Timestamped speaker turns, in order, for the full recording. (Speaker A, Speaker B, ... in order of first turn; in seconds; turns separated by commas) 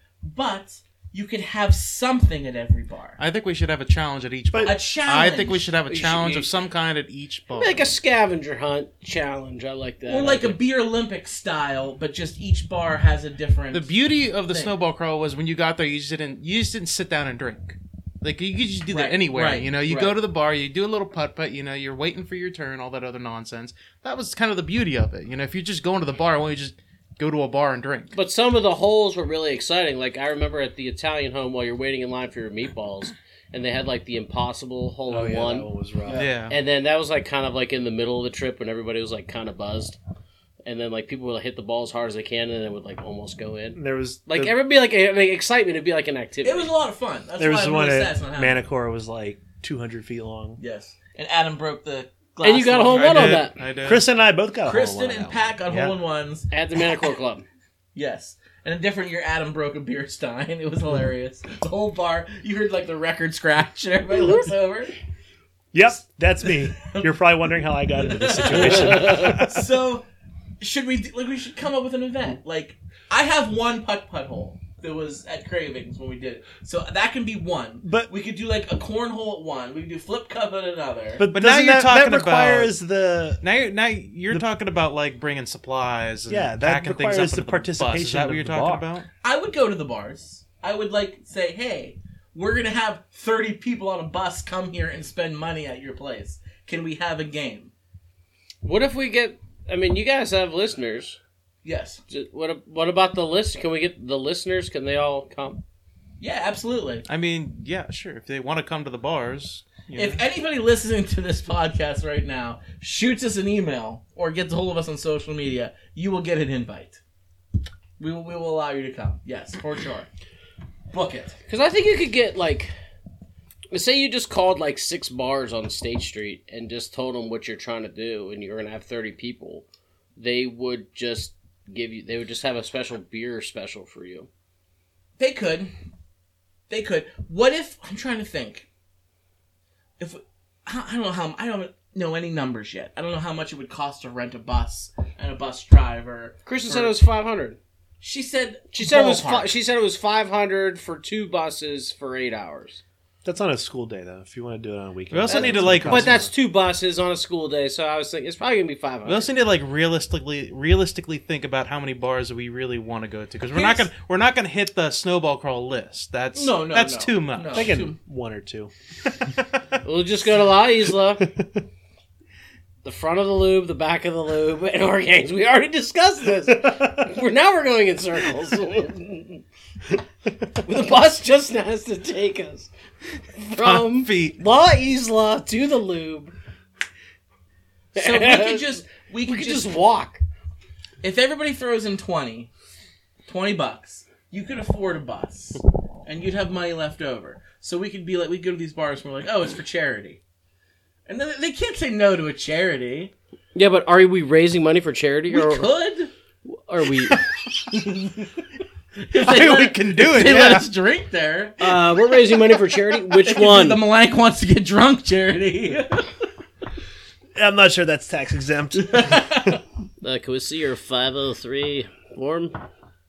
Speaker A: 0.2-3.2, Speaker B: 3.2-7.9, Speaker A: 4.6-5.7, Speaker C: 5.9-6.5, Speaker C: 7.5-10.6, Speaker A: 10.1-13.9, Speaker B: 13.7-28.1, Speaker A: 18.9-20.2, Speaker C: 28.1-35.7, Speaker D: 35.1-36.2, Speaker B: 36.1-36.5, Speaker C: 36.5-40.0, Speaker C: 40.6-46.7, Speaker D: 43.7-44.5, Speaker A: 46.4-48.6, Speaker D: 47.4-50.6, Speaker A: 50.6-53.4, Speaker C: 52.4-53.6, Speaker B: 52.9-54.0, Speaker D: 53.8-55.9, Speaker A: 54.6-56.5, Speaker C: 56.5-57.5, Speaker A: 57.9-64.9, Speaker D: 65.7-69.7, Speaker A: 66.7-67.1, Speaker A: 68.0-70.0, Speaker A: 70.6-81.2, Speaker D: 77.8-78.1, Speaker D: 81.2-83.4, Speaker B: 81.3-82.7, Speaker B: 83.4-89.1, Speaker D: 86.3-88.9, Speaker A: 89.2-97.7, Speaker C: 98.6-101.2, Speaker A: 101.6-102.0, Speaker C: 102.1-105.6, Speaker A: 106.2-107.0, Speaker B: 107.1-110.2, Speaker A: 109.9-117.0, Speaker A: 118.0-120.1, Speaker A: 120.9-121.3, Speaker C: 121.5-122.7, Speaker C: 123.7-129.6, Speaker C: 130.2-134.3, Speaker A: 135.2-135.7, Speaker A: 136.7-138.7, Speaker A: 140.0-146.9, Speaker C: 146.4-147.6, Speaker A: 148.0-149.5, Speaker C: 148.7-152.8, Speaker D: 153.2-156.3, Speaker B: 155.1-156.2, Speaker C: 155.3-159.3, Speaker B: 159.1-167.7, Speaker A: 163.5-163.9, Speaker A: 166.3-168.0, Speaker D: 167.5-168.7, Speaker C: 169.8-171.3, Speaker D: 171.2-171.6, Speaker C: 172.8-179.4, Speaker C: 180.5-182.7, Speaker C: 183.4-186.3, Speaker B: 183.5-184.4, Speaker A: 187.9-189.7, Speaker C: 187.9-190.2, Speaker A: 191.0-192.5, Speaker A: 193.2-200.2, Speaker A: 201.1-203.1, Speaker C: 203.5-205.7, Speaker A: 205.3-206.1, Speaker C: 206.4-207.2, Speaker A: 209.0-212.0, Speaker B: 209.1-210.7, Speaker C: 211.6-213.8, Speaker A: 213.2-216.1, Speaker D: 217.3-219.4, Speaker A: 218.9-219.6, Speaker C: 220.0-222.6